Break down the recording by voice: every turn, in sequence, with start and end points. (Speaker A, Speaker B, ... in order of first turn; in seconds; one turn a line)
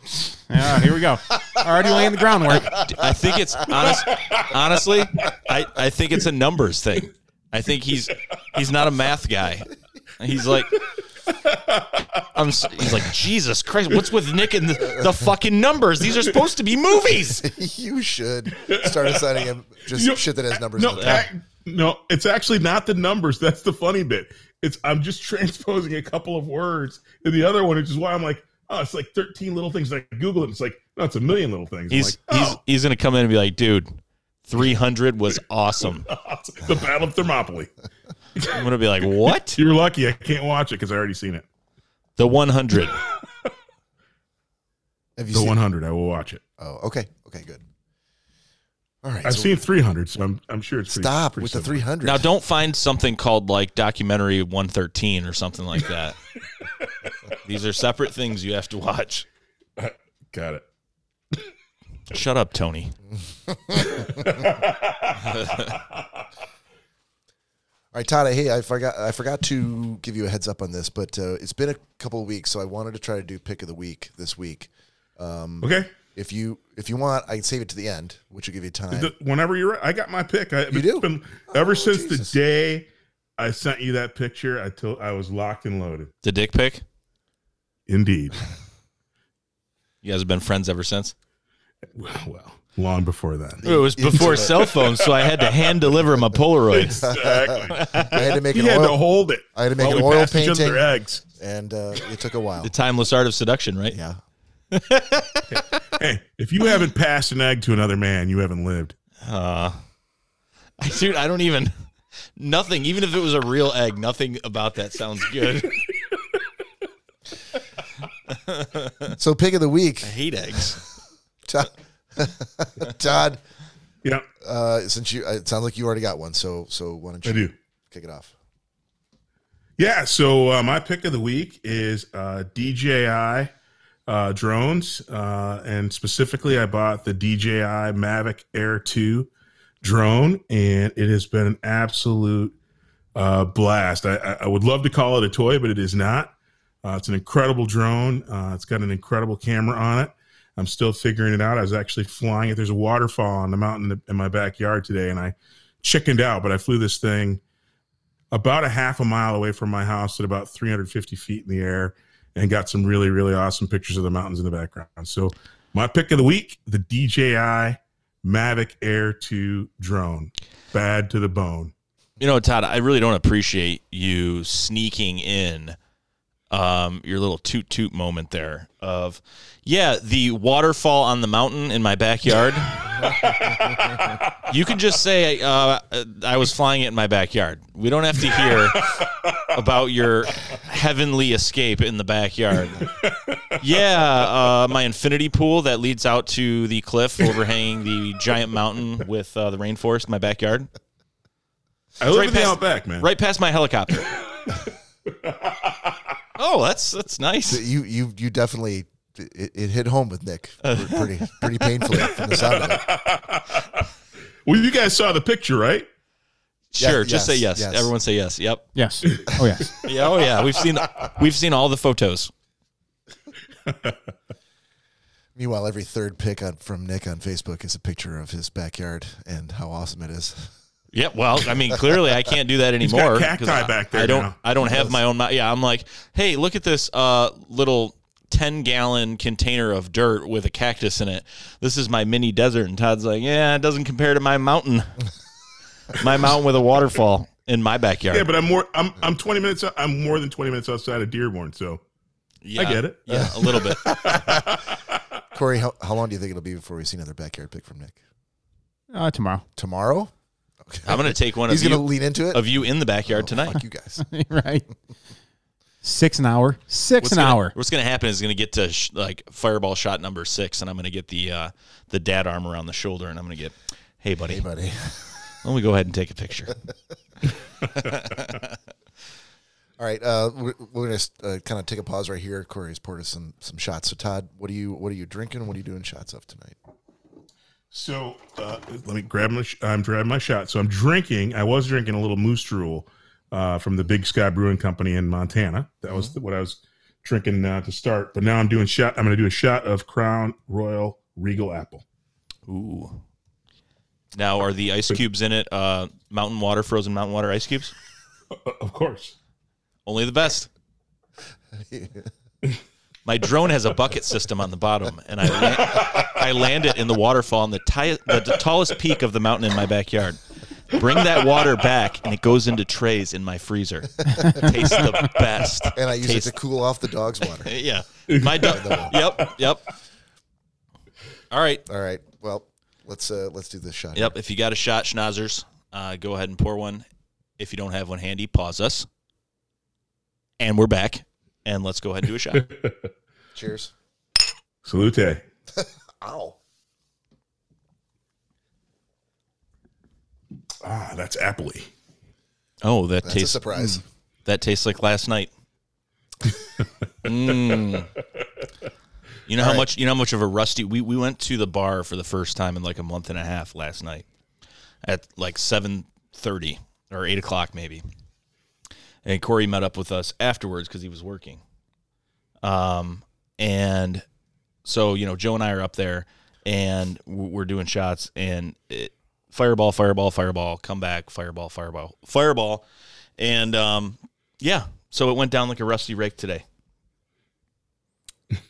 Speaker A: 0.5-2.8
Speaker B: 2.6-10.8
Speaker C: 3.7-4.5
Speaker C: 10.8-12.2
Speaker B: 12.3-17.5
Speaker D: 17.4-21.3
Speaker C: 18.6-19.4
Speaker C: 19.9-32.6
Speaker B: 20.9-21.3
Speaker B: 31.9-33.9
Speaker B: 34.5-36.1
Speaker C: 36.0-37.7
Speaker D: 36.6-36.9
Speaker C: 38.4-41.5
Speaker B: 38.5-39.6
Speaker B: 42.2-43.0
Speaker C: 42.9-43.5
Speaker D: 45.2-45.6
Speaker C: 45.3-46.4
Speaker D: 46.6-47.6
Speaker D: 49.0-49.6
Speaker C: 49.2-51.8
Speaker D: 50.9-52.3
Speaker B: 52.0-56.2
Speaker B: 57.4-59.3
Speaker C: 59.8-60.6
Speaker B: 62.1-62.9
Speaker D: 63.5-64.4
Speaker C: 63.8-66.0
Speaker B: 65.2-65.8
Speaker D: 67.9-79.1
Speaker C: 75.6-75.9
Speaker C: 78.9-86.1
Speaker D: 80.7-82.3
Speaker B: 86.2-86.8
Speaker C: 87.9-88.4
Speaker B: 90.0-91.1
Speaker C: 92.0-95.8
Speaker D: 93.6-94.7
Speaker B: 93.7-97.1
Speaker C: 96.7-101.2
Speaker D: 96.9-99.0
Speaker B: 97.7-98.3
Speaker D: 99.5-100.9
Speaker D: 101.4-102.7
Speaker B: 102.6-104.0
Speaker D: 103.9-104.2
Speaker B: 104.7-105.6
Speaker C: 105.5-109.0
Speaker B: 109.2-109.8
Speaker B: 110.8-111.9
Speaker B: 112.4-115.8
Speaker B: 118.3-119.2
Speaker D: 119.2-120.2
Speaker B: 120.0-120.8
Speaker D: 121.5-123.4
Speaker D: 124.4-128.3
Speaker C: 127.2-127.5
Speaker C: 129.8-133.5
Speaker C: 134.1-139.3
Speaker C: 139.8-142.6
Speaker C: 143.2-146.3
Speaker C: 146.8-157.4
Speaker C: 158.3-171.7
Speaker B: 172.2-175.8
Speaker B: 176.5-183.5
Speaker B: 184.4-192.9
Speaker C: 188.3-189.4
Speaker C: 192.8-193.7
Speaker B: 193.6-200.7
Speaker C: 202.0-203.1
Speaker B: 202.1-204.1
Speaker C: 205.1-206.0
Speaker B: 206.4-207.6
Speaker D: 207.5-212.9
Speaker B: 210.6-212.2
Speaker C: 212.3-213.8
Speaker C: 214.5-215.9
Speaker B: 216.7-219.2
Speaker D: 216.8-217.9
Speaker A: 218.8-219.7
Speaker C: 219.1-220.1
Speaker B: 219.8-222.3
Speaker C: 223.7-224.0
Speaker D: 225.3-230.5
Speaker B: 230.9-245.1
Speaker C: 232.8-234.4
Speaker D: 234.6-235.0
Speaker B: 245.9-248.3
Speaker C: 248.1-251.8
Speaker B: 252.4-254.2
Speaker C: 252.6-254.8
Speaker D: 253.1-254.6
Speaker D: 255.3-258.0
Speaker A: 258.9-259.4
Speaker D: 259.6-260.1
Speaker D: 260.6-264.0
Speaker B: 260.9-263.6
Speaker A: 264.0-264.7
Speaker A: 265.8-267.5
Speaker B: 267.0-274.4
Speaker D: 274.3-275.4
Speaker B: 275.4-276.6
Speaker B: 277.8-278.5
Speaker D: 279.8-286.6
Speaker C: 287.7-301.8
Speaker D: 295.9-296.1
Speaker B: 302.5-303.0
Speaker B: 304.1-307.7
Speaker C: 308.3-309.1
Speaker B: 309.9-310.5
Speaker D: 311.6-312.1
Speaker B: 313.1-326.3
Speaker C: 315.7-316.1
Speaker D: 324.1-324.5
Speaker D: 325.7-327.5
Speaker B: 327.4-329.7
Speaker C: 328.1-329.2
Speaker D: 328.4-329.0
Speaker B: 331.3-331.6
Speaker D: 331.7-334.1
Speaker B: 333.9-336.8
Speaker B: 337.4-338.9
Speaker B: 340.4-342.5
Speaker C: 342.4-342.9
Speaker D: 343.4-343.7
Speaker C: 344.6-345.2
Speaker D: 345.6-346.4
Speaker C: 350.6-351.7
Speaker B: 352.6-355.3
Speaker D: 353.0-353.8
Speaker B: 357.0-357.9
Speaker B: 359.3-364.1
Speaker D: 359.4-359.7
Speaker B: 364.8-367.8
Speaker B: 369.1-371.4
Speaker B: 372.4-374.0
Speaker B: 374.6-382.6
Speaker B: 383.2-386.4